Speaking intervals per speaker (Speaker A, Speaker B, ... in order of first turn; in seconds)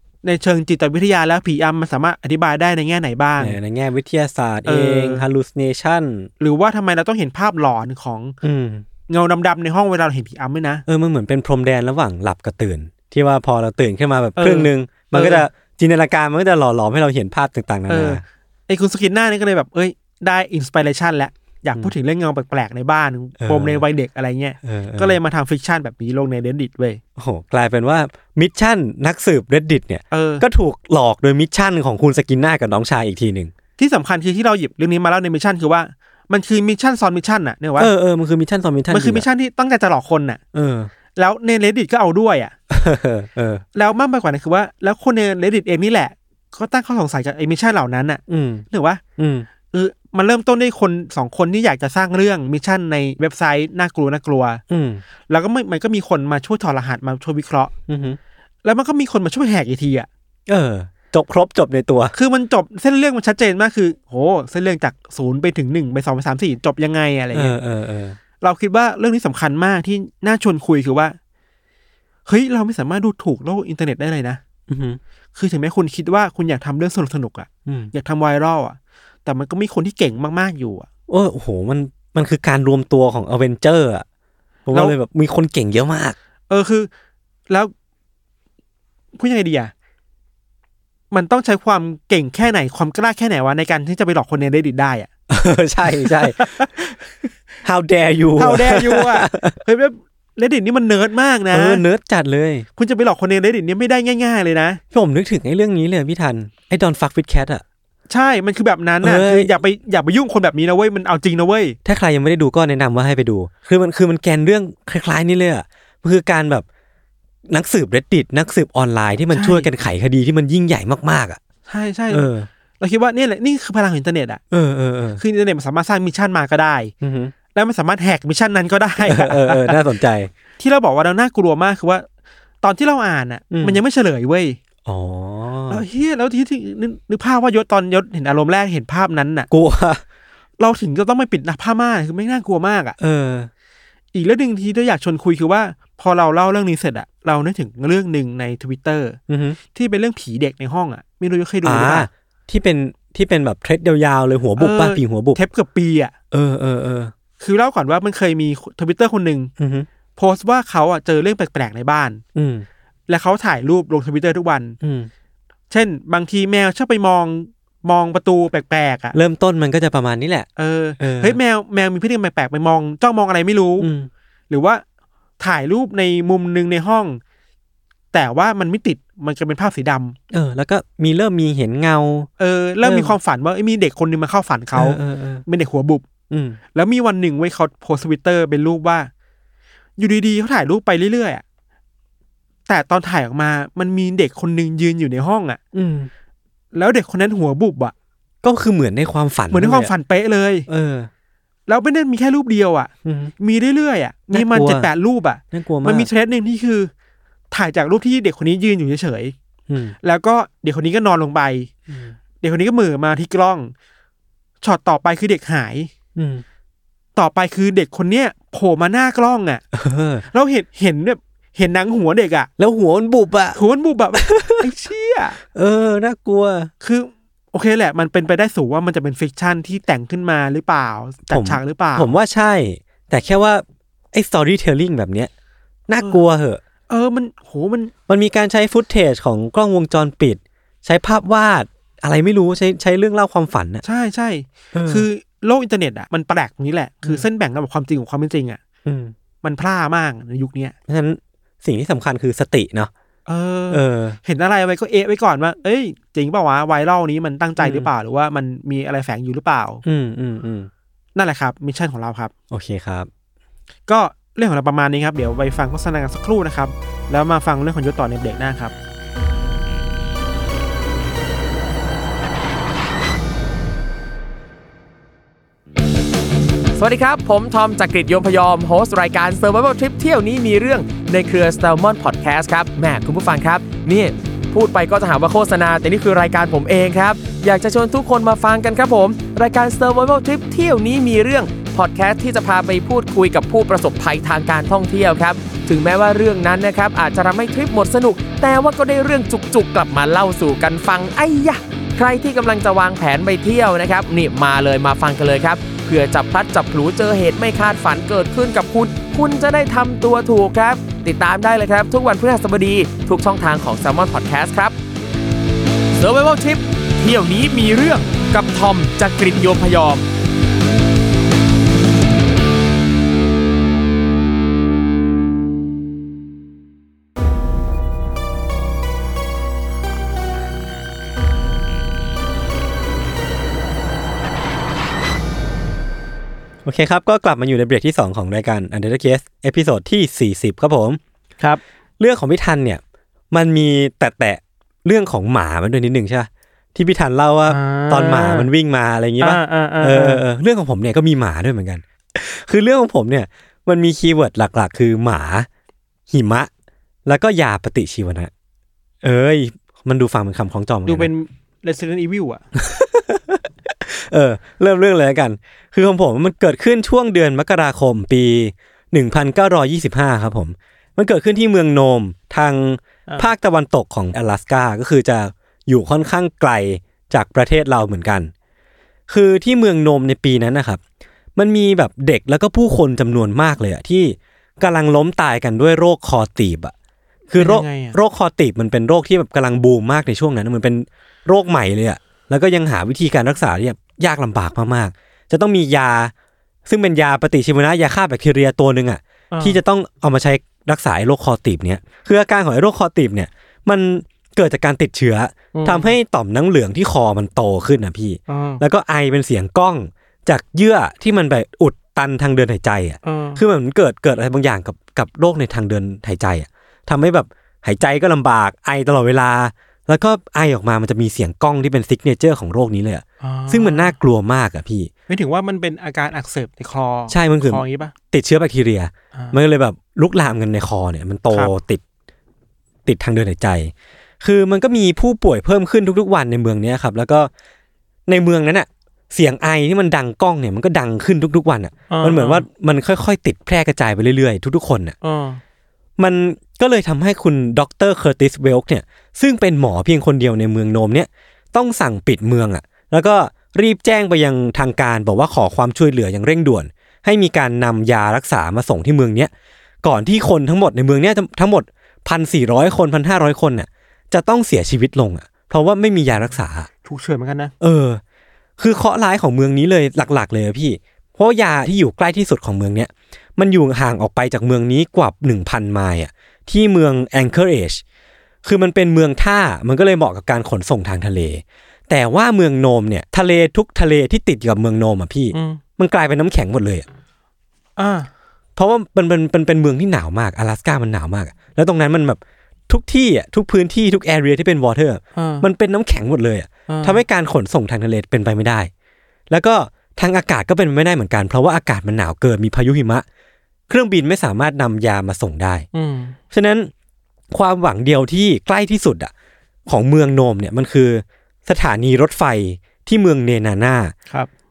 Speaker A: 0.2-3.6, 4.6-5.3, 6.4-8.4, 9.1-10.8, 14.4-15.5, 17.9-27.0, 30.1-30.4, 33.8-37.9, 38.9-40.4, 41.1-42.5, 43.8-49.0, 49.7-54.6, 55.3-57.7, 58.6-60.1, 62.1-67.6, 68.4-71.2, 72.3-74.4, 75.3-80.9, 86.5-86.9, 89.2-89.7, 91.1-95.1, 96.0-96.9, 98.4-101.8, 102.8-104.8, 108.1-111.8, 119.3-119.7, 121.7-122.3, 122.8-124.4, 125.2-126.9, 127.5-129.8, 130.6-132.1, 132.6-134.6, 135.7-139.5, 140.6-143.0, 144.1-149.2, 149.7-152.1, 154.6-156.1, 157.4-159.5, 160.2-162.2, 163.1-164.8, 165.7-169.1, 170.6-173.9, 174.5-174.8, 175.4-177.2, 178.1-180.2, 182.4-186.1, 186.7-189.1, 190.0-191.4, 192.7-195.6, 196.7-197.9, 199.5-200.7, 201.7-206.9, 207.5-209.3, 210.0-211.7, 212.4-213.7, 214.6-215.9, 217.2-219.6, 220.3-222.5, 223.6-225.4, 226.8-232.1, 236.9-237.9, 243.8-248.6, 249.4-250.8, 253.3-259.8, 261.1-262.3, 263.9-268.8, 347.5-348.5, 349.2-350.2, 360.9-362.4, 387.4-388.0, 399.3-399.6, 405.5-405.9, 408.3-408.6, 413.0-413.4, 423.2-423.9, 425.1-427.9, 441.9-442.5, 445.0-445.4, 466.8-467.5, 485.3-485.6, 487.8-488.1, 495.1-495.5, 496.7-497.0, 505.7-506.2
Speaker B: 3.4-6.3, 8.4-8.9, 10.9-18.2, 23.4-23.8, 24.6-25.2, 27.2-33.5, 37.8-39.3, 40.5-40.9, 42.7-43.6, 48.3-49.5, 54.7-55.0, 57.9-58.2, 60.5-62.1, 67.3-68.2, 74.7-75.0, 77.7-77.9, 81.1-84.0, 84.7-86.2, 95.3-96.8, 97.6-99.6, 101.5-102.7, 104.9-107.6, 109.0-109.5, 111.8-116.7, 117.5-121.4, 122.1-122.5, 124.5-125.2, 127.0-127.3, 129.0-130.3, 133.5-133.8, 134.8-135.8, 139.5-140.0, 143.0-143.5, 149.3-149.6, 151.6-155.4, 156.3-157.1, 159.6-159.9, 162.3-162.7, 164.8-165.1, 169.1-170.5, 171.0-171.4, 173.8-174.1, 180.3-182.3, 182.8-183.2, 184.7-185.4, 186.3-186.6, 195.7-196.1, 198.4-199.9, 200.7-201.1, 203.0-203.3, 204.3-204.9, 205.5-206.1, 209.7-209.9, 211.9-212.2, 216.1-216.4, 219.7-220.2, 222.6-223.6, 224.1-224.6, 225.5-226.7, 231.3-235.3, 235.9-236.6, 238.1-243.8, 244.7-245.1, 248.8-249.1, 250.9-252.9, 253.7-254.2, 257.6-257.9, 259.8-260.7, 262.5-263.1, 336.6-341.0, 342.0-342.8, 343.3-355.5, 356.1-356.5, 357.1-358.3, 359.0-361.1, 362.6-378.3, 379.1-380.8, 381.4-386.7, 387.3-396.1, 396.6-424.9, 427.1-431.8, 432.9-437.3, 438.1-445.0, 446.0-459.3, 459.8-466.7, 467.6-468.0, 468.6-477.8, 478.4-486.9, 488.6-498.7, 499.3-503.1, 503.7-505.7, 506.3-506.7, 507.3-509.1, 509.7-513.9
Speaker C: 276.7-314.8, 316.0-320.1